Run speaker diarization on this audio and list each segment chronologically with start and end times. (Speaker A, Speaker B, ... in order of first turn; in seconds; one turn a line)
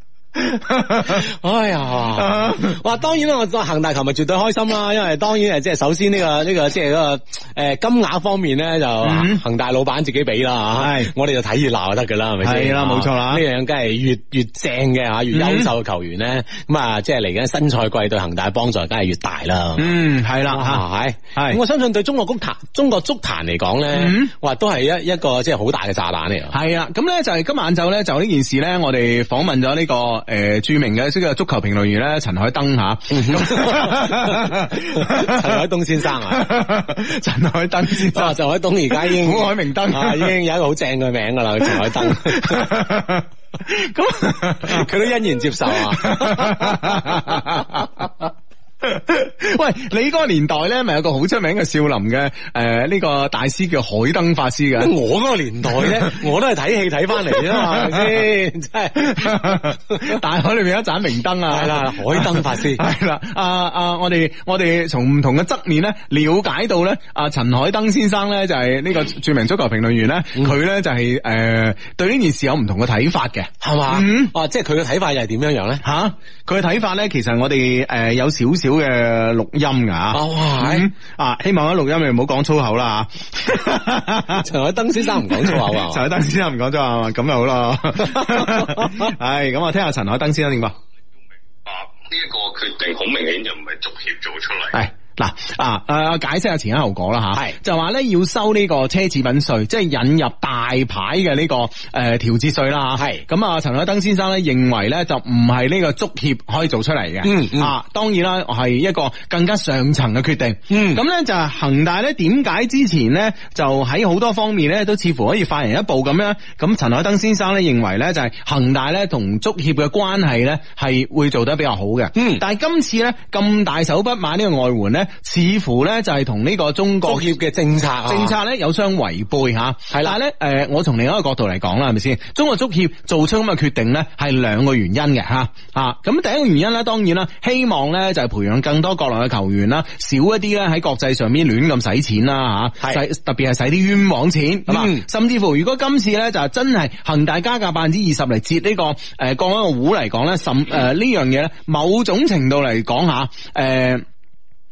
Speaker A: 0.4-1.2
Speaker B: 1.1-19.9
Speaker A: 2.2-2.8
Speaker A: 9.0-9.4
Speaker A: 10.8-11.1
Speaker A: 12.4-13.4
Speaker A: 15.3-15.7
Speaker A: 19.8-21.6
Speaker B: 20.5-26.5
Speaker A: 23.9-24.3
Speaker A: 26.5-35.6
Speaker B: 33.1-36.5
Speaker A: 36.3-38.4
Speaker B: 38.0-42.8
Speaker A: 38.9-40.4
Speaker A: 41.6-44.9
Speaker B: 44.6-47.5
Speaker A: 45.7-48.1
Speaker A: 48.8-54.9
Speaker B: 54.8-60.1
Speaker A: 55.8-56.1
Speaker A: 57.3-58.2
Speaker A: 59.0-74.3
Speaker B: 61.5-62.8
Speaker B: 73.6-75.8
Speaker A: 75.8-84.5
Speaker B: 80.1-80.9
Speaker B: 84.3-86.0
Speaker A: 85.2-90.8
Speaker B: 88.1-89.1
Speaker C: 91.7-94.8
Speaker A: 94.7-127.3
Speaker B: 103.0-103.2
Speaker B: 107.2-107.7
Speaker B: 110.7-111.0
Speaker B: 122.1-122.4
Speaker B: 127.0-128.3
Speaker A: 128.1-154.0
Speaker B: 129.9-130.2
Speaker B: 144.7-145.0